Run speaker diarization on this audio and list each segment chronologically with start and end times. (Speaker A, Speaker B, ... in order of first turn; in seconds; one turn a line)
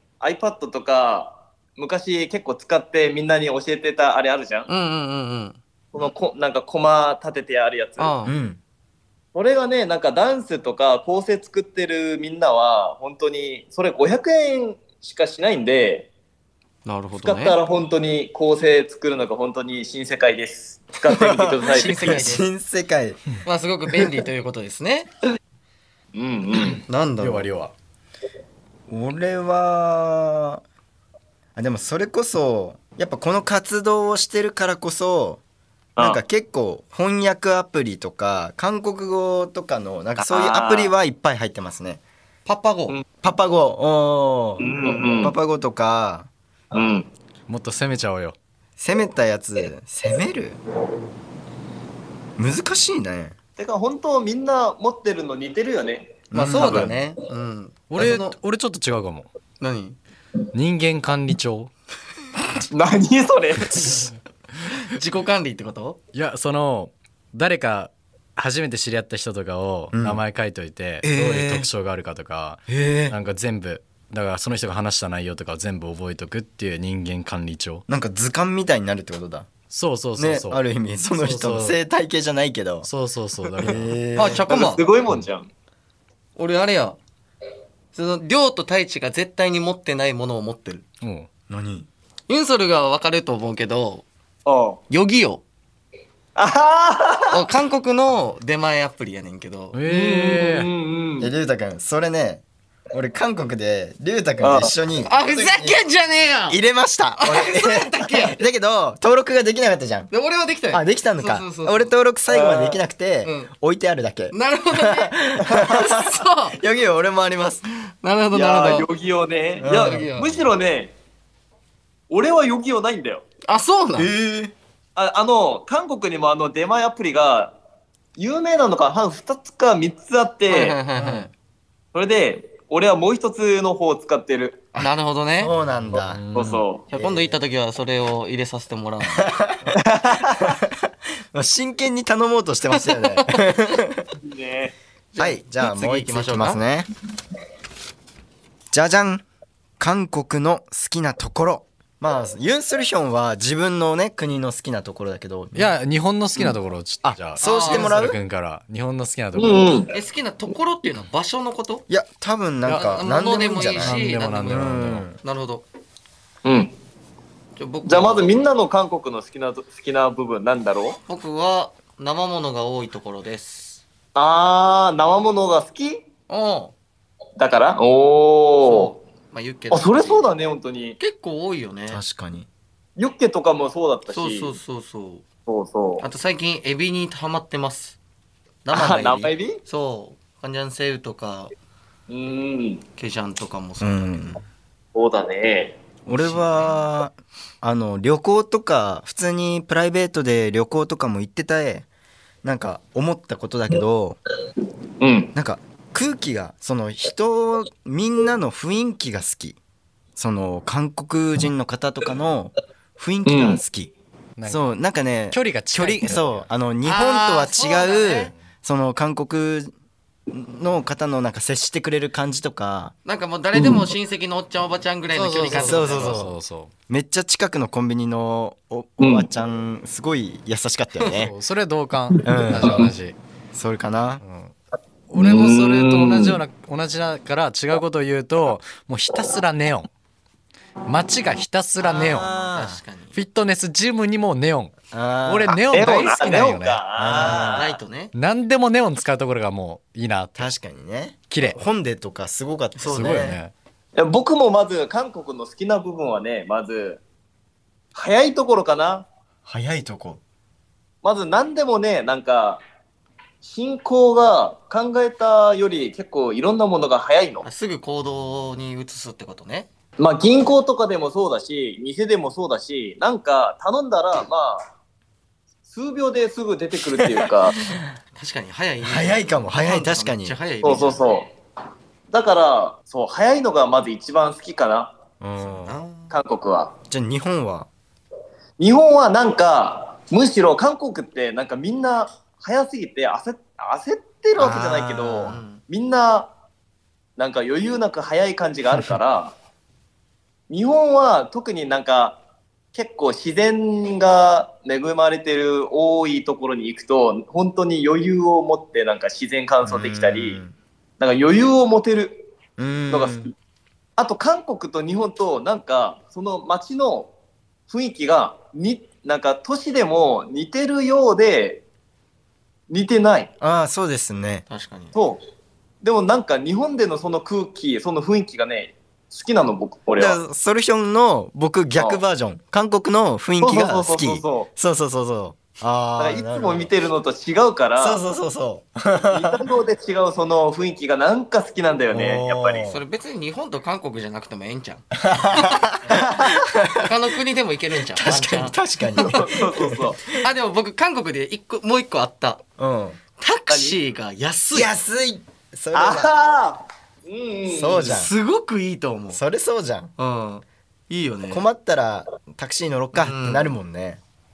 Speaker A: 0.2-4.7
Speaker B: 4.7-5.6
Speaker A: 5.9-8.1
Speaker B: 8.0-8.3
Speaker C: 8.2-8.6
Speaker A: 9.3-16.1
Speaker B: 16.8-17.6
Speaker A: 17.2-22.2
Speaker C: 21.1-23.2
Speaker B: 21.7-22.4
Speaker B: 23.4-25.1
Speaker A: 26.1-26.8
Speaker B: 26.9-27.5
Speaker D: 27.2-27.7
Speaker C: 28.9-30.6
Speaker C: 31.6-35.4
Speaker A: 36.0-36.2
Speaker C: 36.0-42.0
Speaker A: 40.2-40.9
Speaker B: 42.4-43.0
Speaker C: 43.2-46.3
Speaker A: 44.6-45.4
Speaker A: 46.7-47.1
Speaker D: 47.5-48.4
Speaker C: 48.8-50.6
Speaker C: 52.4-53.3
Speaker A: 53.6-56.8
Speaker C: 56.3-57.0
Speaker B: 56.3-58.4
Speaker D: 57.9-59.3
Speaker B: 59.6-60.0
Speaker D: 60.5-61.7
Speaker A: 62.7-64.1
Speaker B: 64.9-66.0
Speaker D: 66.1-77.8
Speaker C: 69.9-70.2
Speaker C: 71.0-71.7
Speaker C: 72.7-73.2
Speaker C: 77.9-79.5
Speaker D: 79.7-81.8
Speaker C: 80.2-82.9
Speaker D: 82.8-84.3
Speaker C: 83.6-84.4
Speaker B: 84.1-84.8
Speaker A: 84.5-85.5
Speaker B: 86.3-87.0
Speaker B: 87.9-90.8
Speaker D: 91.0-91.3
Speaker C: 91.5-91.9
Speaker B: 92.3-94.0
Speaker A: 94.5-94.8
Speaker B: 94.9-95.4
Speaker A: 96.3-97.4
Speaker B: 97.3-99.8
Speaker D: 99.7-100.7
Speaker A: 99.8-101.3
Speaker C: 101.2-105.8
Speaker A: 104.4-104.7
Speaker B: 105.0-106.6
Speaker C: 106.5-110.1
Speaker B: 107.2-108.4
Speaker B: 110.1-111.9
Speaker C: 110.7-117.6
Speaker A: 112.3-112.8
Speaker B: 113.2-113.5
Speaker B: 114.3-116.6
Speaker B: 118.0-118.9
Speaker A: 118.3-120.9
Speaker C: 119.6-120.1
Speaker B: 119.6-120.5
Speaker A: 122.1-123.2
Speaker B: 123.5-124.1
Speaker C: 124.0-124.5
Speaker A: 125.0-127.5
Speaker A: 128.2-130.8
Speaker B: 130.5-131.3
Speaker A: 131.9-134.7
Speaker B: 134.8-135.5
Speaker C: 135.4-136.3
Speaker D: 135.9-136.6
Speaker A: 136.3-136.8
Speaker B: 136.9-139.3
Speaker C: 136.9-137.4
Speaker C: 139.2-139.7
Speaker A: 139.8-140.6
Speaker C: 141.3-144.0
Speaker B: 142.7-143.2
Speaker A: 144.2-144.7
Speaker B: 145.1-146.6
Speaker C: 145.2-146.9
Speaker C: 148.7-149.2
Speaker C: 149.8-155.7
Speaker D: 155.5-159.8
Speaker C: 157.0-158.2
Speaker B: 157.4-158.1
Speaker A: 159.3-159.9
Speaker B: 159.9-161.8
Speaker C: 161.9-165.2
Speaker D: 162.7-165.1
Speaker B: 162.7-165.7
Speaker A: 166.4-166.7
Speaker B: 167.6-168.4
Speaker A: 167.8-171.0
Speaker B: 171.1-173.8
Speaker A: 174.1-176.0
Speaker B: 176.3-176.7
Speaker A: 177.4-179.0
Speaker B: 178.6-180.3
Speaker A: 179.7-181.0
Speaker B: 181.0-182.0
Speaker C: 181.9-182.5
Speaker A: 183.0-184.6
Speaker B: 184.1-185.2
Speaker A: 185.5-186.1
Speaker B: 186.0-188.0
Speaker B: 188.6-191.5
Speaker A: 188.7-189.6
Speaker A: 192.1-192.8
Speaker B: 193.0-194.4
Speaker C: 193.8-194.4
Speaker A: 194.9-195.8
Speaker C: 196.1-201.9
Speaker B: 196.1-196.7
Speaker C: 202.4-204.2
Speaker A: 205.0-205.3
Speaker C: 205.3-209.6
Speaker C: 210.2-213.9
Speaker A: 213.2-213.6
Speaker D: 214.4-216.5
Speaker C: 214.5-219.7
Speaker B: 216.8-218.3
Speaker C: 220.3-222.9
Speaker B: 223.0-226.2
Speaker A: 223.5-223.9
Speaker D: 225.1-226.7
Speaker C: 225.5-226.3
Speaker C: 226.9-231.3
Speaker A: 229.0-229.3
Speaker D: 231.1-233.2
Speaker A: 232.2-232.9
Speaker C: 232.2-232.8
Speaker C: 233.5-234.2
Speaker D: 234.2-234.5
Speaker D: 235.1-239.9
Speaker A: 235.1-236.4
Speaker D: 240.9-242.2
Speaker C: 241.8-242.8
Speaker B: 241.9-243.2
Speaker D: 243.1-247.6
Speaker C: 244.9-245.6
Speaker A: 245.5-247.7
Speaker C: 246.9-247.6
Speaker B: 247.4-248.1
Speaker D: 248.1-250.5
Speaker C: 250.4-253.4
Speaker D: 251.3-251.6
Speaker B: 252.8-253.3
Speaker D: 252.9-253.5
Speaker A: 253.9-257.0
Speaker A: 257.9-259.1
Speaker C: 259.4-260.2
Speaker A: 261.0-262.6
Speaker A: 263.4-267.4
Speaker B: 267.4-269.7
Speaker A: 270.0-274.6
Speaker A: 275.7-277.5
Speaker C: 276.8-277.8
Speaker B: 278.1-281.0
Speaker C: 278.8-280.4
Speaker A: 280.6-281.3
Speaker A: 282.1-284.9
Speaker C: 285.2-285.8
Speaker B: 285.4-286.1
Speaker A: 286.1-286.7
Speaker C: 286.9-287.7
Speaker A: 288.6-296.3
Speaker C: 294.4-295.4
Speaker B: 295.2-295.6
Speaker A: 297.2-299.3
Speaker A: 300.5-302.2
Speaker A: 302.7-310.4
Speaker C: 309.6-310.5
Speaker A: 311.0-312.3
Speaker C: 312.6-313.3
Speaker A: 312.9-313.3
Speaker A: 314.0-317.1
Speaker A: 317.7-321.6
Speaker A: 322.7-323.3
Speaker C: 323.4-324.4
Speaker B: 324.5-324.9
Speaker A: 324.9-325.2
Speaker A: 325.8-330.2
Speaker C: 329.9-336.7
Speaker A: 331.8-332.0
Speaker A: 333.4-334.5
Speaker A: 336.0-338.0
Speaker C: 337.8-339.4
Speaker A: 339.1-342.7
Speaker C: 341.9-342.8
Speaker B: 342.7-345.5
Speaker C: 345.0-346.8
Speaker B: 346.8-349.1
Speaker C: 347.9-350.3
Speaker A: 349.0-350.0
Speaker B: 350.2-352.4
Speaker C: 352.6-353.0
Speaker B: 353.2-354.7
Speaker A: 353.5-353.8
Speaker C: 354.5-356.1
Speaker A: 355.7-358.0
Speaker C: 357.5-358.1
Speaker B: 357.9-359.2
Speaker C: 359.1-359.9
Speaker B: 360.0-361.4
Speaker C: 361.3-364.0
Speaker B: 362.9-363.6